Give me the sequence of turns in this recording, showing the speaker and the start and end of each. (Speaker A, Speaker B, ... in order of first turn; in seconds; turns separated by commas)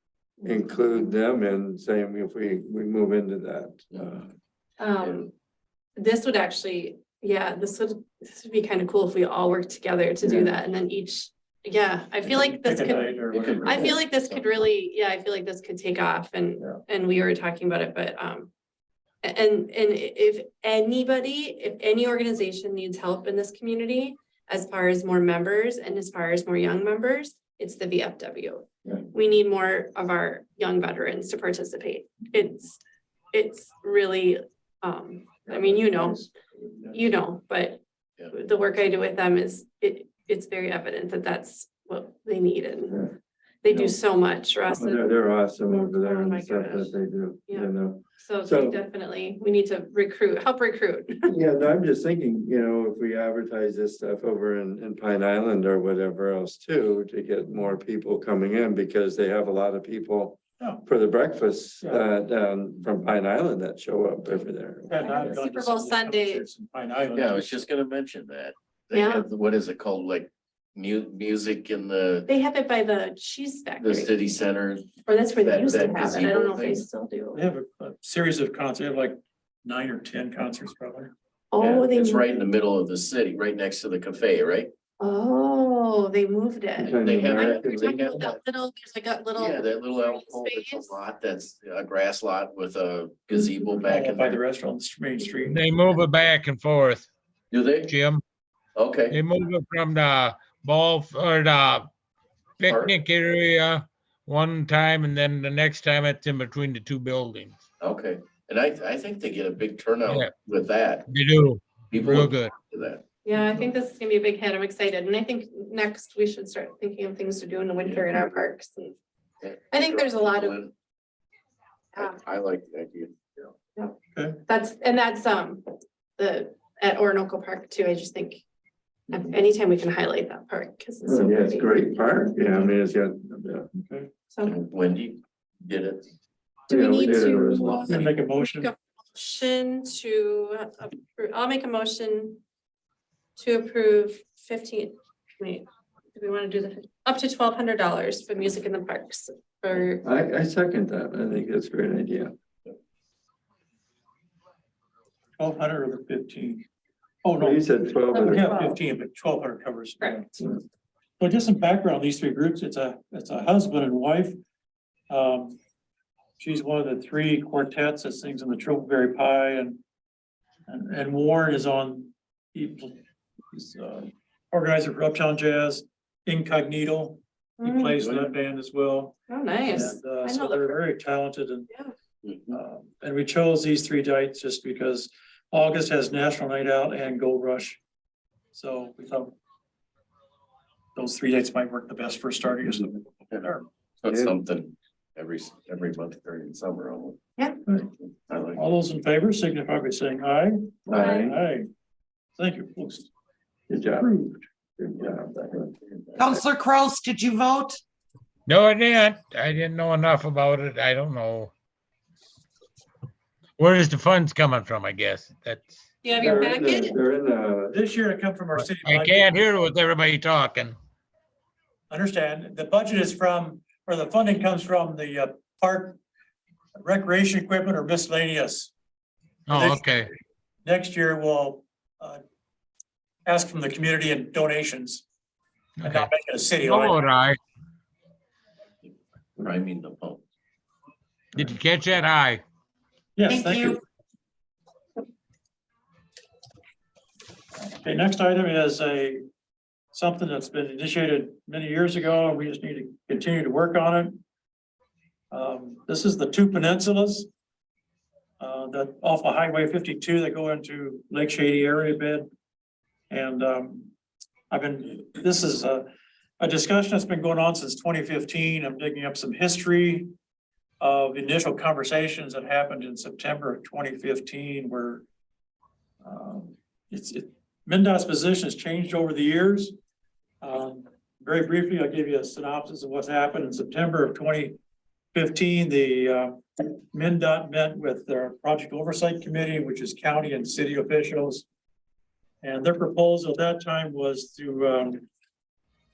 Speaker A: 0.4-4.3, Speaker B: 4.8-5.3, Speaker C: 5.0-5.3, Speaker B: 6.0-18.5, Speaker A: 10.2-10.5, Speaker D: 12.4-13.9, Speaker C: 13.3-14.7, Speaker B: 19.2-32.8, Speaker B: 33.3-36.2, Speaker B: 36.9-43.1, Speaker B: 43.6-45.1, Speaker A: 43.7-43.9, Speaker A: 44.7-48.8, Speaker B: 45.6-47.0, Speaker B: 47.5-51.3, Speaker A: 51.2-65.4, Speaker D: 60.6-60.8, Speaker D: 64.9-67.6, Speaker B: 65.0-66.4, Speaker C: 67.1-72.3, Speaker B: 68.9-69.3, Speaker B: 72.3-74.1, Speaker C: 73.8-76.8, Speaker B: 75.0-77.4, Speaker D: 77.3-81.1, Speaker B: 81.5-82.5, Speaker C: 81.6-84.7, Speaker B: 85.0-91.0, Speaker A: 86.8-88.0, Speaker C: 87.0-88.4, Speaker C: 89.4-94.4, Speaker D: 93.3-95.6, Speaker E: 95.5-97.1, Speaker C: 97.5-97.9, Speaker E: 97.8-98.2, Speaker C: 98.8-99.2, Speaker E: 99.1-101.9, Speaker E: 102.6-107.6, Speaker C: 102.6-102.9, Speaker C: 107.8-111.0, Speaker E: 110.0-110.3, Speaker E: 111.1-112.5, Speaker C: 111.9-113.0, Speaker B: 113.2-119.0, Speaker C: 117.8-118.4, Speaker C: 119.4-120.7, Speaker B: 119.7-120.6, Speaker C: 122.0-123.5, Speaker B: 123.7-128.4, Speaker D: 124.1-124.4, Speaker B: 129.1-131.8, Speaker C: 129.1-129.4, Speaker A: 131.0-133.7, Speaker D: 133.7-134.1, Speaker B: 134.3-134.6, Speaker C: 134.4-136.1, Speaker B: 136.7-142.4, Speaker A: 136.7-138.1, Speaker C: 137.1-137.8, Speaker D: 137.9-138.7, Speaker B: 143.3-150.1, Speaker A: 149.8-152.3, Speaker D: 155.4-156.7, Speaker D: 157.2-157.6, Speaker A: 157.4-158.5, Speaker B: 158.1-158.8, Speaker D: 158.2-160.4, Speaker B: 160.0-160.3, Speaker D: 161.2-164.4, Speaker D: 165.1-165.6, Speaker D: 166.4-169.8, Speaker D: 170.7-179.2, Speaker B: 177.6-177.9, Speaker C: 178.0-178.3, Speaker B: 179.3-180.8, Speaker D: 179.7-181.7, Speaker C: 182.2-182.6, Speaker D: 182.5-187.8, Speaker D: 188.5-189.3, Speaker D: 190.9-193.7, Speaker C: 194.0-197.2, Speaker A: 194.1-194.3, Speaker D: 197.7-197.9, Speaker C: 198.2-198.6, Speaker D: 198.5-201.7, Speaker A: 200.9-201.4, Speaker C: 200.9-201.2, Speaker D: 202.3-203.1, Speaker A: 203.7-204.1, Speaker D: 203.9-204.4, Speaker A: 204.8-205.7, Speaker C: 205.8-206.4, Speaker F: 206.2-207.8, Speaker E: 208.5-211.5, Speaker E: 213.6-215.8, Speaker B: 216.0-217.0, Speaker A: 216.2-217.8, Speaker D: 217.7-219.3, Speaker E: 218.6-220.8, Speaker D: 221.9-226.0, Speaker D: 226.8-228.7, Speaker E: 229.5-230.1, Speaker D: 229.5-232.2, Speaker D: 233.2-235.0, Speaker E: 235.8-236.1, Speaker D: 235.8-237.0, Speaker E: 236.6-237.4, Speaker C: 239.4-240.2, Speaker E: 241.3-242.4, Speaker D: 243.2-243.8, Speaker F: 243.3-243.8, Speaker D: 247.6-249.2, Speaker D: 249.9-254.2, Speaker D: 255.3-257.3, Speaker D: 258.4-262.3, Speaker D: 263.1-263.9, Speaker D: 264.5-265.9, Speaker D: 266.4-270.1, Speaker D: 270.8-275.0, Speaker D: 276.0-279.7, Speaker D: 280.4-284.6, Speaker D: 285.1-291.4, Speaker D: 292.4-295.1